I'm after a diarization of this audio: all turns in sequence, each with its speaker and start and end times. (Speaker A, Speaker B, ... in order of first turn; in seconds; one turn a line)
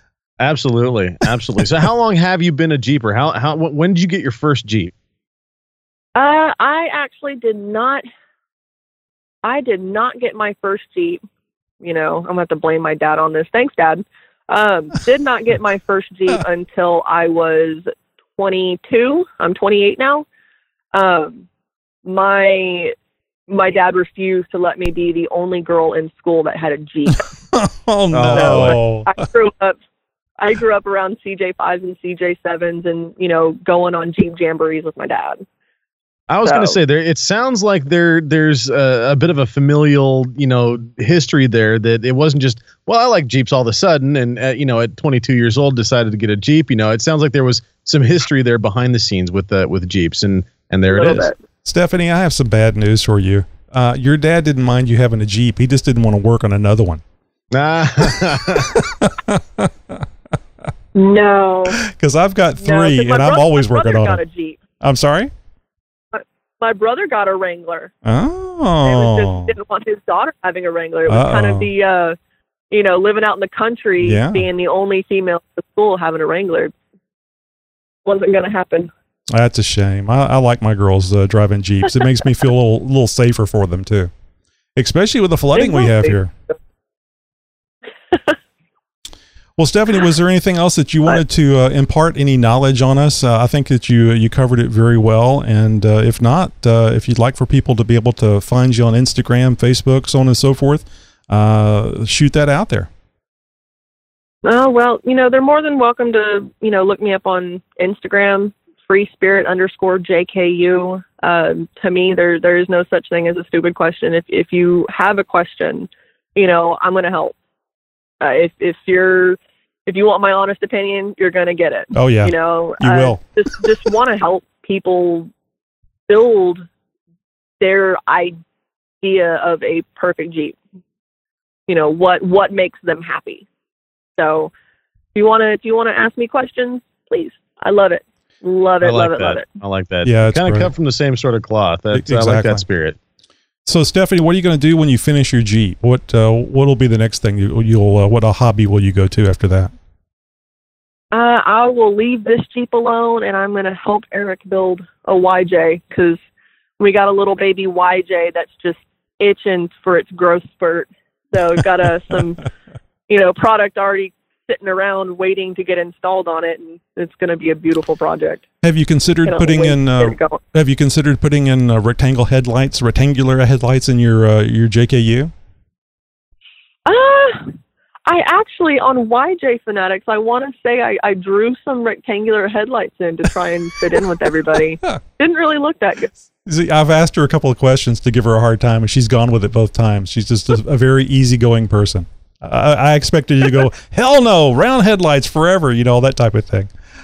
Speaker A: 0.4-4.9
Speaker B: 6.2-8.0
Speaker B: 9.4-11.2
Speaker B: 11.8-20.2
Speaker B: 20.9-21.4
Speaker B: 22.0-22.9
Speaker B: 23.5-27.3
Speaker C: 27.2-29.2
Speaker A: 28.1-28.8
Speaker B: 28.3-29.8
Speaker B: 30.4-35.4
Speaker A: 36.3-51.3
Speaker B: 36.5-36.8
Speaker B: 50.9-51.4
Speaker C: 51.6-57.0
Speaker A: 57.5-58.7
Speaker C: 58.1-60.0
Speaker B: 61.0-61.8
Speaker C: 61.7-64.2
Speaker B: 62.6-64.6
Speaker C: 64.8-65.3
Speaker B: 66.1-67.9
Speaker C: 68.1-69.6
Speaker B: 68.8-72.2
Speaker C: 71.1-71.7
Speaker B: 72.7-76.7
Speaker C: 74.0-74.5
Speaker B: 78.0-78.9
Speaker C: 79.3-84.1
Speaker C: 84.8-86.3
Speaker B: 85.5-86.2
Speaker C: 89.6-102.9
Speaker B: 104.5-117.3
Speaker B: 118.2-125.3
Speaker C: 121.9-123.2
Speaker B: 126.1-126.6
Speaker B: 127.6-128.4
Speaker B: 129.0-130.6
Speaker B: 131.7-133.5
Speaker B: 134.2-134.5
Speaker B: 135.2-139.5
Speaker A: 138.8-143.0
Speaker C: 140.0-140.7
Speaker C: 141.9-142.6
Speaker C: 143.7-149.7
Speaker B: 151.1-156.2
Speaker B: 156.8-162.4
Speaker B: 163.1-168.4
Speaker C: 168.6-175.3
Speaker B: 169.2-170.4
Speaker B: 176.9-177.5
Speaker B: 178.1-186.2
Speaker C: 184.5-185.0
Speaker C: 186.4-196.7